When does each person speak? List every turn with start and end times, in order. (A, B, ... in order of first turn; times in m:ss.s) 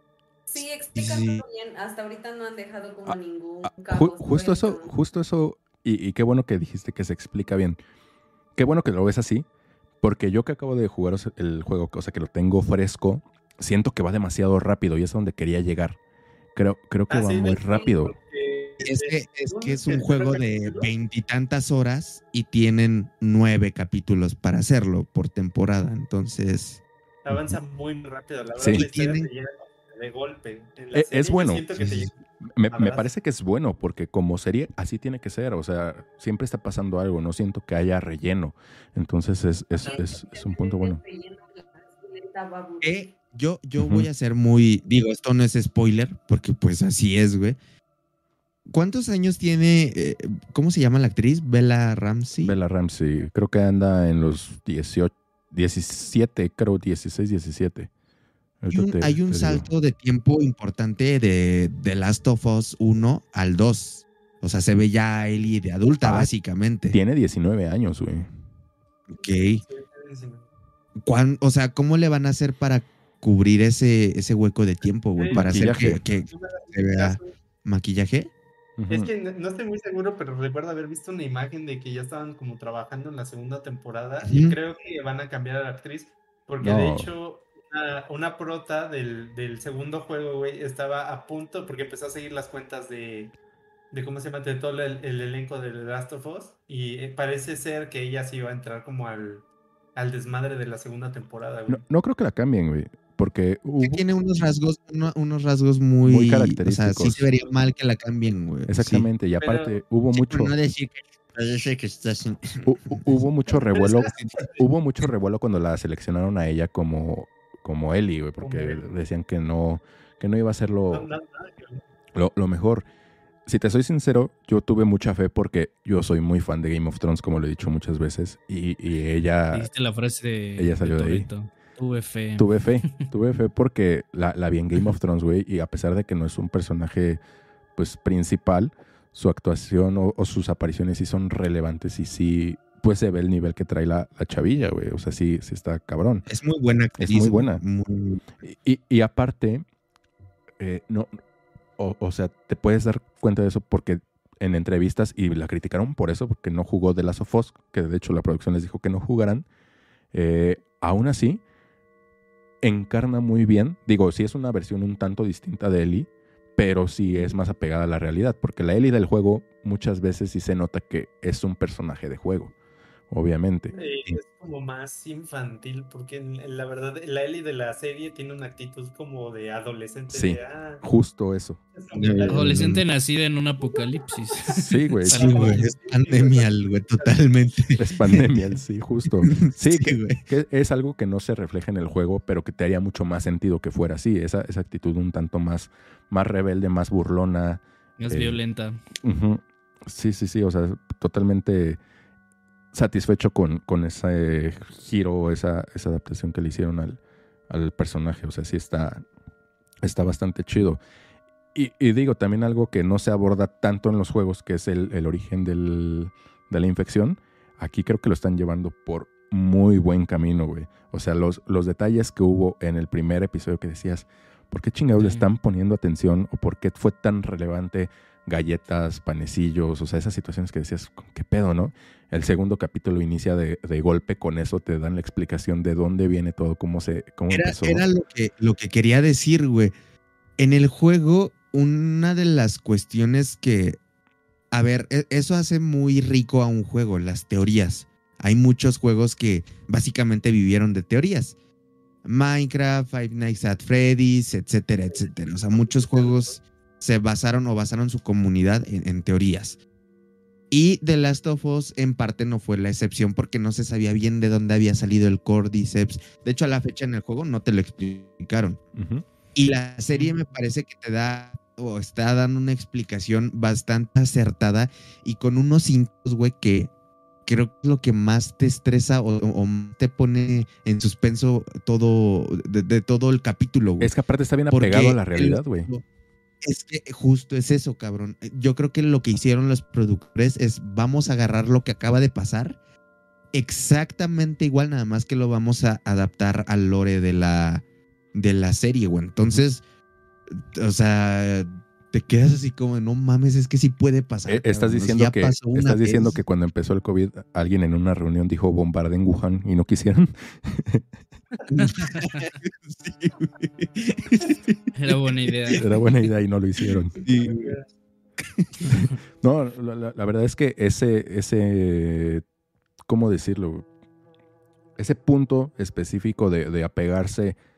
0:00.5-0:04.9 A
0:01.0-0:01.4 B
0:03.0-0:07.8 C
0:08.6-0:09.4 C
0:10.0-0:16.0 C
0:16.6-0:18.1 C
0:17.1-0:20.9 D
0:18.8-0:26.8 B
0:27.2-0:32.1 D
0:27.3-0:27.6 C
0:28.6-0:28.8 C
0:28.6-0:29.3 B
0:30.9-0:31.7 C
0:31.8-0:32.0 B
0:32.4-0:41.0 C
0:32.7-0:33.1 D
0:39.8-0:43.0 A
0:42.8-0:47.6 B
0:43.8-0:44.1 C
0:48.7-0:52.5 B
0:52.4-0:57.9 C
0:58.6-0:59.7 C
0:58.7-1:07.0 B
1:06.0-1:06.3 C
1:06.9-1:08.3 C
1:09.1-1:09.6 B
1:09.6-1:10.4 D
1:11.0-1:18.3 B
1:15.2-1:17.3 D
1:15.3-1:16.0 C
1:18.8-1:19.1 C
1:18.9-1:33.3 D
1:24.2-1:24.6 B
1:26.6-1:27.1 C
1:33.9-1:41.8 D
1:41.7-1:44.0 C
1:43.8-1:49.1 B
1:46.0-1:47.2 C
1:48.7-1:50.6 C
1:49.4-1:49.8 D
1:50.1-1:53.2 B
1:52.6-2:01.1 C
1:53.7-1:54.1 D
1:54.1-1:54.5 B
1:58.4-1:58.8 D
2:00.9-2:01.8 D
2:02.1-2:02.9 C
2:03.4-2:09.7 C
2:09.5-2:13.0 E
2:10.6-2:11.3 C
2:12.4-2:17.2 C
2:17.8-2:26.3 C
2:26.3-2:28.2 B
2:27.0-2:27.6 C
2:28.4-2:29.6 C
2:30.6-2:31.1 C
2:31.8-2:39.4 C
2:40.1-2:41.4 C
2:42.6-2:52.5 C
2:53.1-2:54.2 C
2:53.7-3:00.8 D
3:00.1-3:01.6 C
3:01.8-3:02.4 D
3:01.9-3:02.8 B
3:02.3-3:05.7 E
3:04.6-3:05.3 C
3:05.1-3:06.5 D
3:05.2-3:08.3 B
3:07.8-3:18.4 C
3:09.3-3:10.2 B
3:18.0-3:18.8 E
3:19.0-3:21.8 C
3:22.7-3:29.0 C
3:29.8-3:30.8 C
3:31.5-3:57.8 C
3:45.0-3:45.2 E
3:57.3-3:59.7 B
4:00.4-4:03.8 B
4:04.5-4:11.3 B
4:12.0-4:19.6 B
4:14.9-4:16.4 D
4:20.5-4:28.6 B
4:28.7-4:29.0 C
4:29.3-4:36.7 B
4:37.3-4:43.9 B
4:43.8-4:45.7 C
4:44.5-4:45.8 B
4:46.4-4:52.6 B
4:53.3-4:57.6 B
4:58.1-4:59.6 B
5:00.3-5:06.2 B
5:04.3-5:10.8 C
5:11.5-5:14.6 B
5:11.6-5:12.3 E
5:14.7-5:15.7 E
5:15.5-5:17.0 C
5:17.0-5:17.6 B
5:17.1-5:17.6 D
5:18.2-5:18.5 B
5:18.7-5:22.2 C
5:22.9-5:23.7 C
5:24.8-5:27.4 C